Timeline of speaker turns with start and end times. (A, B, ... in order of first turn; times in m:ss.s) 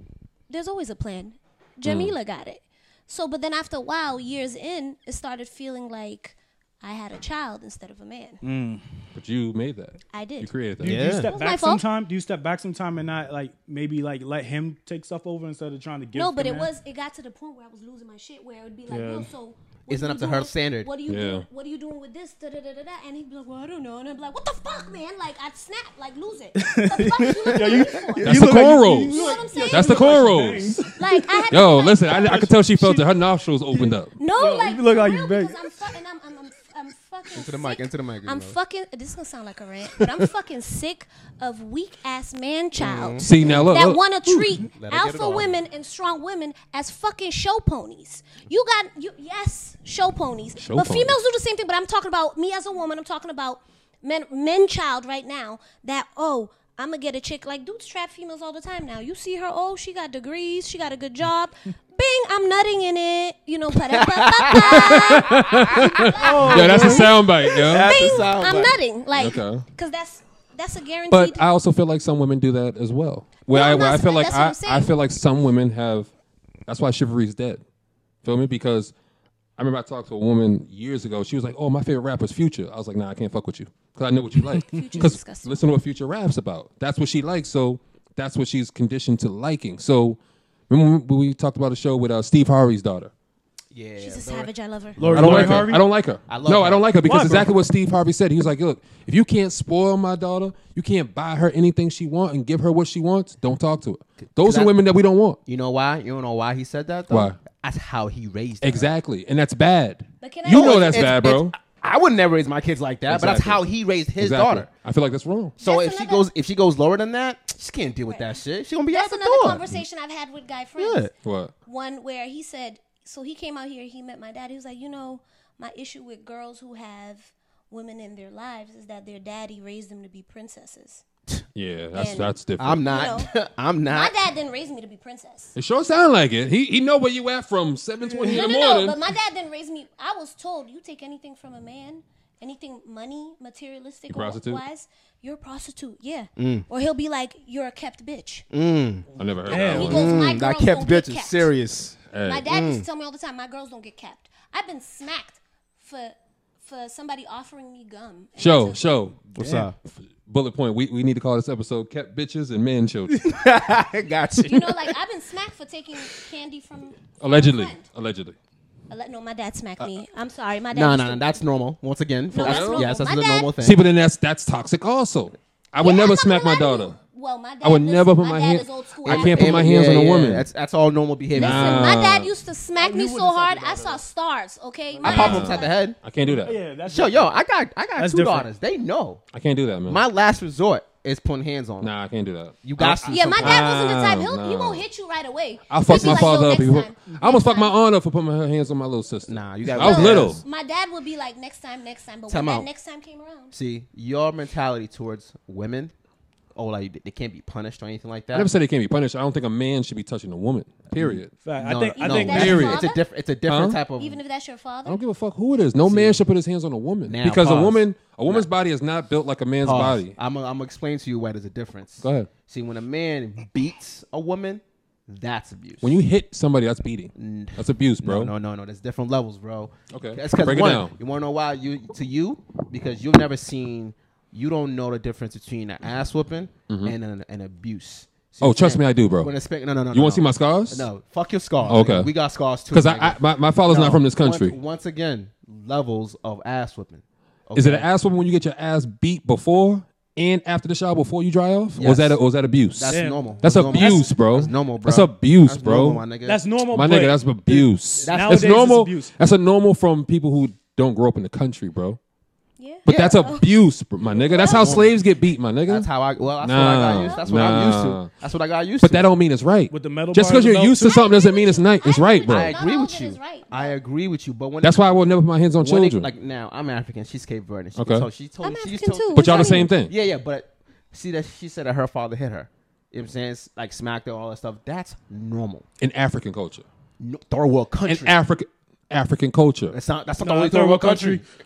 0:00.5-0:08.4 A
0:01.8-0:02.1 B
0:08.4-0:08.8 C
0:09.1-0:11.2 B
0:10.1-0:10.5 A
0:10.8-0:16.7 C
0:10.8-0:11.3 D
0:11.3-0:11.8 A
0:16.1-0:30.4 A
0:18.9-0:19.3 C
0:19.9-0:20.9 D
0:21.1-0:21.5 B
0:26.6-0:31.4 C
0:28.2-0:30.9 B
0:30.9-0:32.5 A
0:31.5-0:34.1 B
0:32.1-0:33.1 C
0:33.7-0:35.7 C
0:34.2-1:11.5 A
0:37.3-0:38.6 D
0:42.8-0:43.7 D
0:43.2-0:44.4 B
0:44.7-0:45.5 D
0:50.6-0:51.2 B
1:03.9-1:06.8 D
1:04.5-1:08.2 B
1:06.2-1:07.1 C
1:07.6-1:08.8 D
1:09.2-1:09.6 B
1:11.1-1:16.1 B
1:13.5-1:14.9 A
1:16.7-1:17.6 B
1:18.2-1:18.9 B
1:19.6-1:33.1 B
1:24.7-1:25.6 A
1:33.7-1:34.5 D
1:34.0-1:35.3 A
1:35.0-1:35.8 C
1:35.0-1:35.7 D
1:35.1-1:45.4 B
1:36.3-1:36.9 D
1:37.0-1:37.5 C
1:44.4-1:44.7 D
1:45.5-1:48.9 D
1:47.1-1:47.4 B
1:48.6-1:51.5 B
1:50.2-1:51.1 A
1:50.5-1:54.7 D
1:53.1-1:53.6 B
1:54.2-1:55.6 B
1:55.6-1:59.6 D
1:55.6-1:56.3 A
1:58.1-2:01.1 A
2:00.8-2:01.1 D
2:01.2-2:01.5 B
2:01.7-2:11.0 A
2:11.6-2:12.9 B
2:12.0-2:13.3 A
2:12.6-2:14.1 D
2:13.9-2:15.6 A
2:15.6-2:19.0 B
2:18.1-2:18.4 C
2:18.2-2:28.5 A
2:24.1-2:24.6 B
2:26.4-2:26.6 D
2:28.5-2:29.1 D
2:29.2-2:30.3 B
2:29.5-2:30.0 C
2:29.5-2:31.5 A
2:29.8-2:32.8 D
2:32.1-2:32.5 B
2:32.2-2:38.8 A
2:38.4-2:39.2 B
2:39.4-2:39.8 D
2:39.4-2:39.7 C
2:40.3-2:43.2 B
2:43.2-2:45.0 D
2:44.5-2:47.8 A
2:47.2-2:48.4 B
2:48.9-2:51.3 A
2:50.7-2:53.8 D
2:52.3-2:53.5 A
2:52.4-2:53.0 B
2:53.6-2:57.0 B
2:55.8-2:59.7 A
2:57.6-3:00.5 B
2:59.0-3:02.0 D
3:01.3-3:05.8 A
3:01.4-3:02.3 B
3:02.8-3:04.0 C
3:04.9-3:05.4 C
3:05.0-3:06.0 D
3:05.1-3:06.6 B
3:06.4-3:07.2 C
3:06.9-3:09.2 D
3:08.0-3:08.5 C
3:09.3-3:10.0 B
3:09.9-3:11.9 D
3:11.8-3:14.8 B
3:12.6-3:13.7 D
3:13.1-3:17.7 A
3:15.7-3:20.4 B
3:15.9-3:16.3 D
3:19.3-3:20.4 D
3:19.7-3:23.5 A
3:22.3-3:22.7 D
3:23.5-3:25.9 D
3:26.6-3:28.5 D
3:28.3-3:31.3 B
3:31.0-3:34.2 D
3:31.4-3:32.6 C
3:32.0-3:33.0 A
3:32.1-3:32.9 B
3:33.5-3:33.8 B
3:34.0-3:35.0 A
3:34.8-3:40.1 B
3:35.8-3:36.2 D
3:37.1-3:38.5 D
3:39.6-3:46.0 D
3:42.0-3:42.3 B
3:45.8-3:48.3 B
3:47.2-4:07.9 D
3:49.9-3:50.9 B
3:56.7-3:57.0 B
3:58.4-3:59.3 B
3:59.9-4:00.9 B
4:01.6-4:02.1 B
4:02.7-4:04.6 B
4:07.6-4:16.0 B
4:11.8-4:12.2 D
4:12.7-4:16.4 D
4:12.9-4:14.1 C
4:16.3-4:19.2 C
4:16.7-4:22.0 B
4:18.0-4:18.6 D
4:22.6-4:23.5 A
4:22.8-4:25.9 B
4:22.9-4:23.2 D
4:24.1-4:25.0 D
4:24.3-4:24.8 A
4:25.7-4:29.1 D
4:26.4-4:28.1 B
4:26.8-4:27.7 A
4:28.8-4:32.5 B
4:29.7-4:31.0 C
4:30.8-4:33.8 A
4:32.3-4:35.0 D
4:34.6-4:36.1 B
4:35.6-4:45.7 D
4:37.8-4:38.1 B
4:38.4-4:39.7 A
4:39.1-4:39.9 B
4:45.8-4:46.7 B
4:47.0-4:48.2 D
4:47.8-4:49.8 B
4:49.7-4:51.2 D
4:50.2-4:51.2 C